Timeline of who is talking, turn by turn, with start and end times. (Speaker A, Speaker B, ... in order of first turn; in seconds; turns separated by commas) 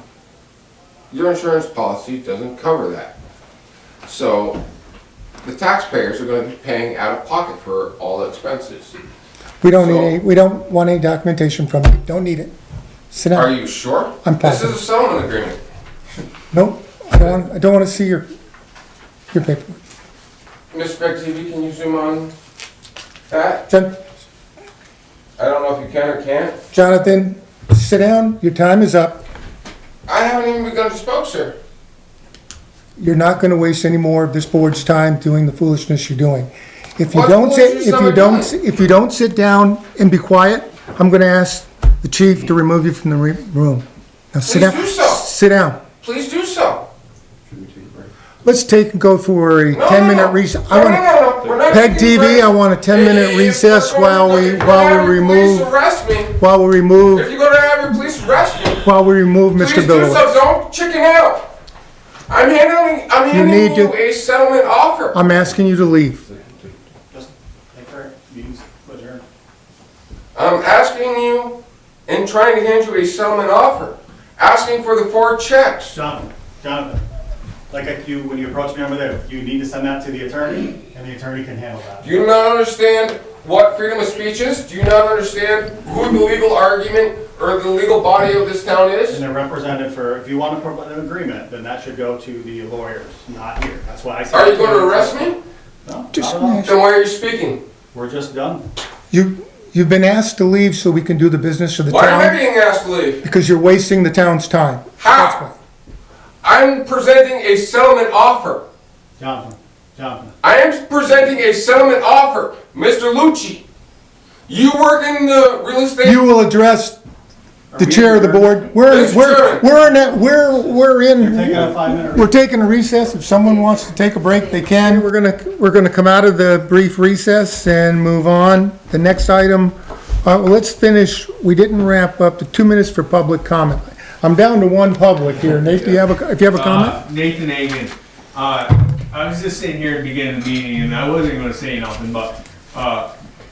Speaker A: 1.1-3.1, Speaker A: 4.0-4.6, Speaker A: 5.4-8.9, Speaker B: 9.6-12.5, Speaker A: 9.7-10.2, Speaker B: 13.1-13.5, Speaker A: 13.3-15.6, Speaker B: 14.2-14.8, Speaker B: 16.5-18.3, Speaker B: 19.3-19.8, Speaker A: 20.7-22.3, Speaker A: 23.3-23.6, Speaker B: 23.7-24.0, Speaker A: 25.4-26.5, Speaker B: 26.7-29.2, Speaker A: 30.1-31.6, Speaker B: 33.0-45.8, Speaker A: 37.1-38.5, Speaker A: 44.5-45.2, Speaker A: 46.0-46.9, Speaker B: 48.4-51.1, Speaker A: 49.7-56.4, Speaker B: 51.7-55.7, Speaker B: 56.4-57.3, Speaker A: 57.1-58.8, Speaker B: 58.8-60.3, Speaker A: 59.6-61.5, Speaker A: 62.3-65.2, Speaker B: 63.3-63.9, Speaker B: 65.1-66.2, Speaker C: 67.1-69.2, Speaker A: 70.3-76.0, Speaker C: 75.9-77.0, Speaker C: 77.7-82.1, Speaker A: 82.0-89.2, Speaker C: 89.1-96.7, Speaker A: 94.3-95.4, Speaker B: 96.1-96.7, Speaker A: 96.6-97.6, Speaker C: 97.9-98.7, Speaker B: 99.1-102.4, Speaker A: 101.9-103.2, Speaker B: 103.2-105.5, Speaker A: 105.0-105.4, Speaker A: 106.4-108.6, Speaker C: 109.2-110.3, Speaker A: 110.4-113.6, Speaker A: 114.5-116.2, Speaker B: 116.0-117.0, Speaker C: 117.7-118.8, Speaker B: 117.8-137.0, Speaker A: 118.9-119.7, Speaker C: 121.2-122.3, Speaker A: 135.6-136.0, Speaker D: 136.5-143.1